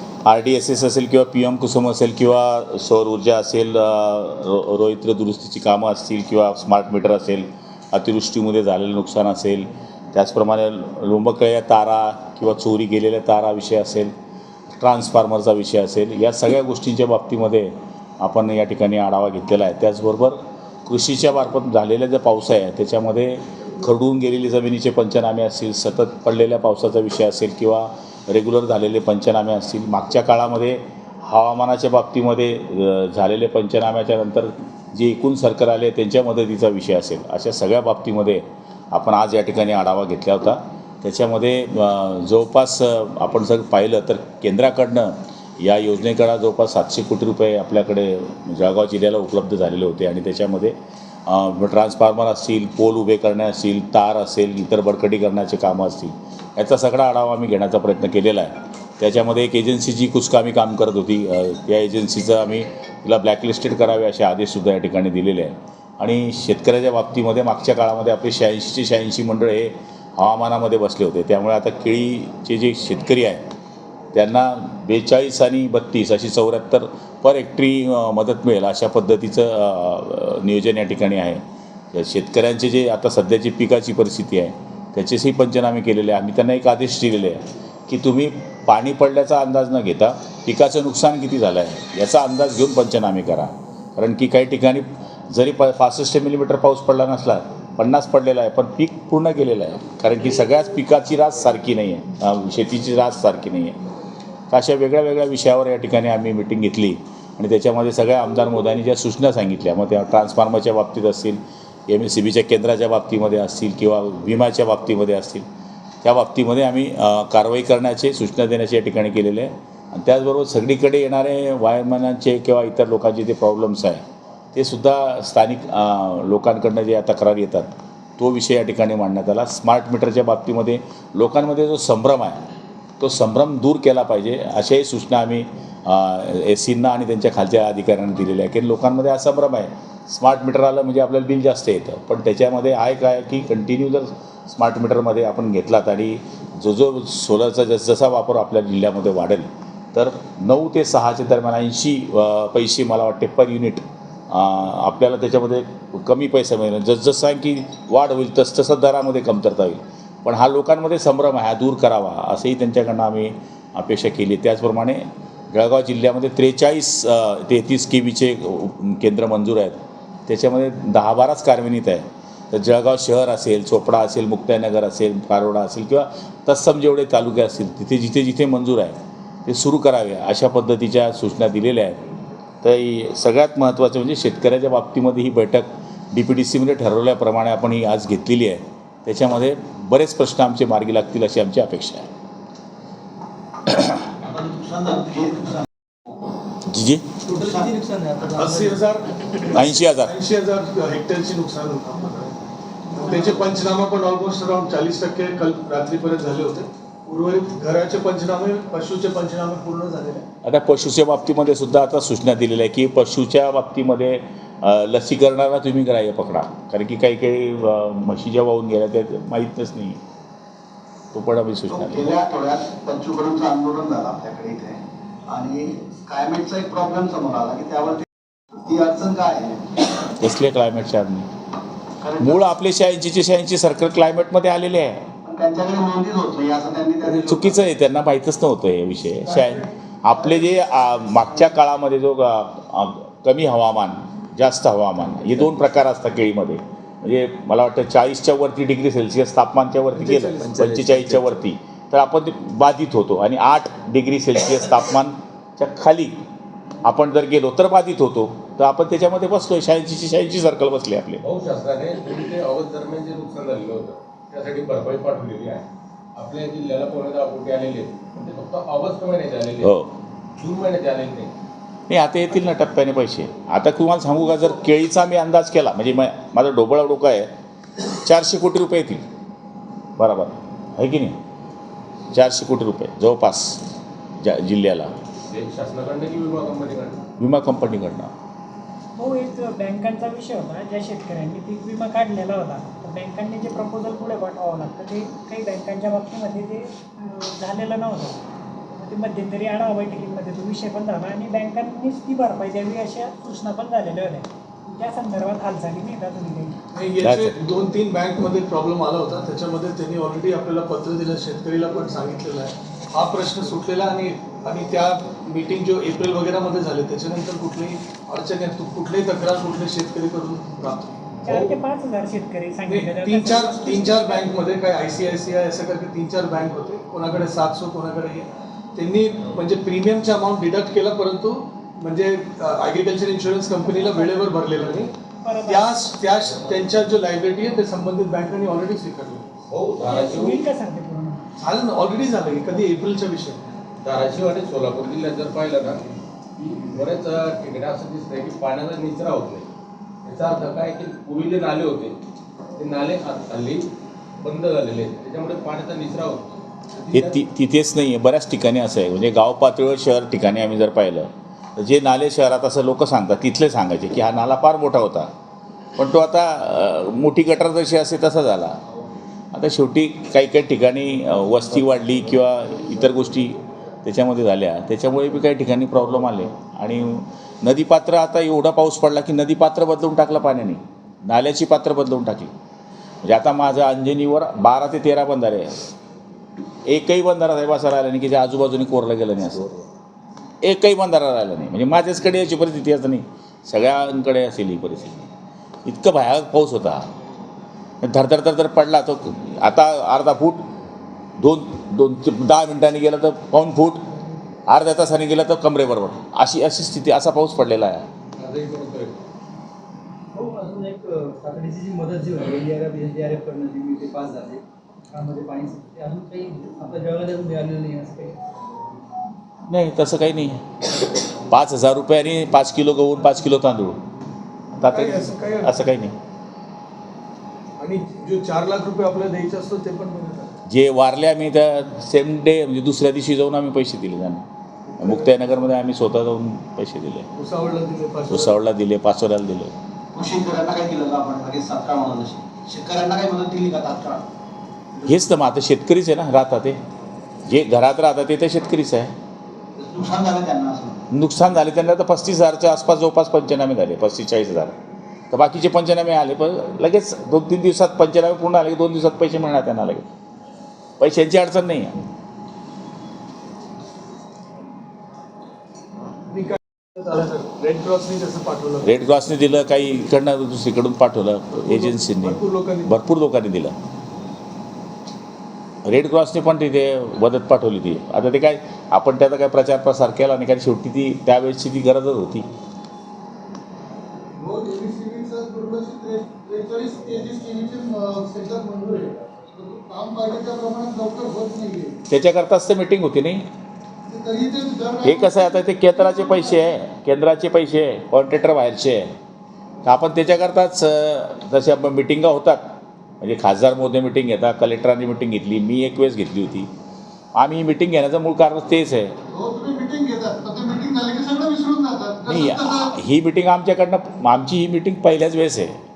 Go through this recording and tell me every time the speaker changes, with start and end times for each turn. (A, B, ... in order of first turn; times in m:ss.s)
0:00.3-0:14.1 A
0:14.8-1:13.4 A
1:14.1-1:21.4 A
1:21.9-1:43.8 A
1:44.5-1:55.4 A
1:56.0-2:04.0 A
2:04.6-2:12.4 A
2:13.0-3:02.1 A
3:02.6-3:12.1 A
3:13.7-3:14.0 A
3:14.2-3:15.7 B
3:16.7-3:17.0 A
3:17.2-3:18.8 C
3:17.4-3:17.7 B
3:18.2-3:22.4 D
3:19.5-3:20.1 A
3:22.9-3:30.2 D
3:30.4-3:40.0 A
3:41.1-3:42.1 A
3:41.7-3:48.1 B
3:48.6-3:49.6 B
3:50.2-3:51.3 A
3:52.0-3:52.4 B
3:52.2-3:55.1 A
3:55.2-3:57.5 B
3:57.0-4:16.2 A
4:09.9-4:10.9 D
4:16.8-4:21.2 A
4:21.2-4:25.6 E
4:26.2-4:29.7 E
4:29.6-4:29.9 A
4:30.4-4:31.3 E
4:31.9-4:37.3 A
4:37.9-4:39.0 A
4:40.0-4:41.2 A
4:42.1-4:43.6 A
4:44.2-4:44.9 A
4:45.3-4:47.0 E
4:47.2-4:48.1 A
4:49.0-4:58.2 F
4:58.8-5:06.6 F
5:06.7-5:21.5 D
5:07.0-5:07.3 A
5:21.2-5:24.3 F
5:22.6-5:34.9 D
5:33.6-5:35.8 F
5:35.4-5:39.3 D
5:39.5-5:40.5 E
5:39.8-5:41.2 F
5:41.4-5:43.5 D
5:43.8-5:45.8 E
5:46.4-5:49.5 E
5:50.0-5:52.0 E
5:52.6-5:53.7 E
5:54.2-5:57.2 E
5:56.9-6:05.1 A
6:05.8-6:08.6 A
6:09.3-6:22.3 A
6:23.0-6:25.6 A
6:26.7-6:29.6 A
6:30.4-6:35.1 A
6:35.6-6:36.9 A
6:37.8-6:40.4 A
6:41.2-6:43.8 A
6:44.5-6:47.9 A
6:48.2-6:49.0 E
6:50.1-6:58.2 C
6:59.5-7:00.4 A
7:01.2-7:03.8 A
7:04.5-7:05.9 A
7:04.7-7:05.5 D
7:07.6-7:10.3 D
7:10.5-7:14.2 A
7:14.8-7:17.1 A
7:14.8-7:15.2 D
7:17.2-7:18.4 D
7:18.1-7:19.5 A
7:19.9-7:24.0 B
7:24.9-7:26.6 A
7:27.3-7:28.9 A
7:29.6-7:30.8 B
7:30.9-7:34.5 A
7:35.1-7:39.8 A
7:40.8-7:41.8 A
7:46.1-7:48.8 D
7:48.6-7:53.5 A
7:51.4-7:52.7 D
7:55.6-8:02.3 A
8:04.2-8:11.8 G
8:11.9-8:13.3 A
8:13.9-8:16.5 G
8:14.8-8:19.0 A
8:19.6-8:26.5 A
8:27.2-8:29.0 A
8:29.1-8:32.8 G
8:32.1-8:35.6 A